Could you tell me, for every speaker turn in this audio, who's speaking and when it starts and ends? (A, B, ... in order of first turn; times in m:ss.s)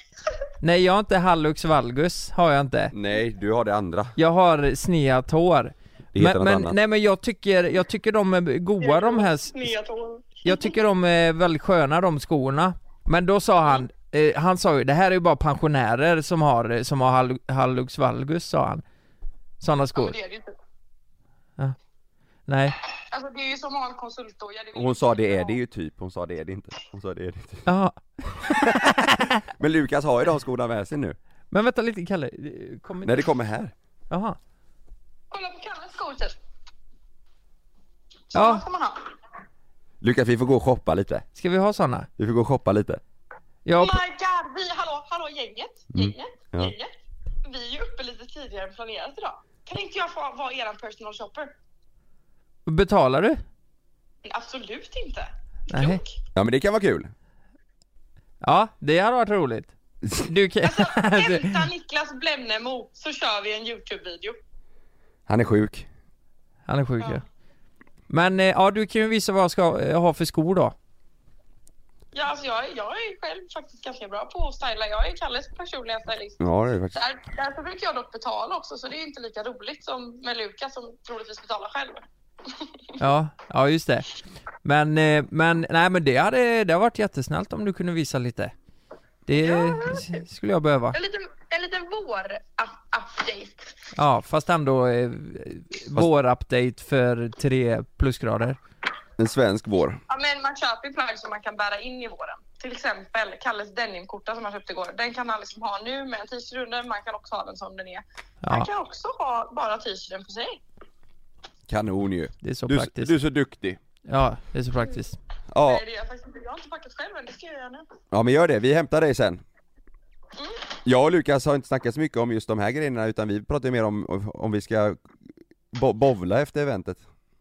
0:00.6-0:02.9 A
0:02.9-0:04.2 B
0:04.2-0:09.7 A
0:06.1-0:06.8 B
0:08.8-0:10.7 C
0:10.4-0:18.8 A
0:19.6-0:20.2 A
0:19.9-0:20.5 C
0:22.5-0:22.8 A
0:23.1-0:25.6 C
0:24.7-0:27.7 B
0:27.6-0:29.3 A
0:28.4-0:31.2 B
0:31.5-0:33.3 A
0:33.0-0:33.7 B
0:34.1-0:34.4 A
0:35.3-0:36.3 C
0:38.3-0:39.0 C
0:38.3-0:38.6 A
0:40.0-0:41.2 B
0:41.4-0:42.1 A
0:42.2-0:43.0 B
0:43.6-0:44.0 A
0:43.8-0:46.9 C
0:45.9-0:46.7 B
0:47.4-0:51.5 C
0:52.7-0:53.4 A
0:54.2-0:56.1 C
0:55.7-0:56.0 A
0:56.3-0:57.1 B
0:58.4-1:01.6 A
1:00.6-1:04.4 C
1:05.3-1:05.9 B
1:06.7-1:07.2 A
1:08.1-1:10.7 A
1:12.1-1:16.4 C
1:16.4-1:17.0 B
1:16.9-1:22.7 C
1:23.0-1:24.1 A
1:24.6-1:28.5 A
1:29.3-1:31.0 A
1:29.3-1:30.2 C
1:30.9-1:33.7 C
1:33.9-1:38.6 A
1:39.2-1:40.0 B
1:40.1-1:50.6 C
1:48.4-1:48.7 A
1:51.7-1:53.8 B
1:52.4-1:53.1 A
1:54.0-1:55.2 A
1:55.5-1:55.8 B
1:55.6-1:57.8 C
1:58.1-1:59.4 B
2:00.4-2:00.6 C
2:00.8-2:05.0 B
2:05.7-2:07.0 B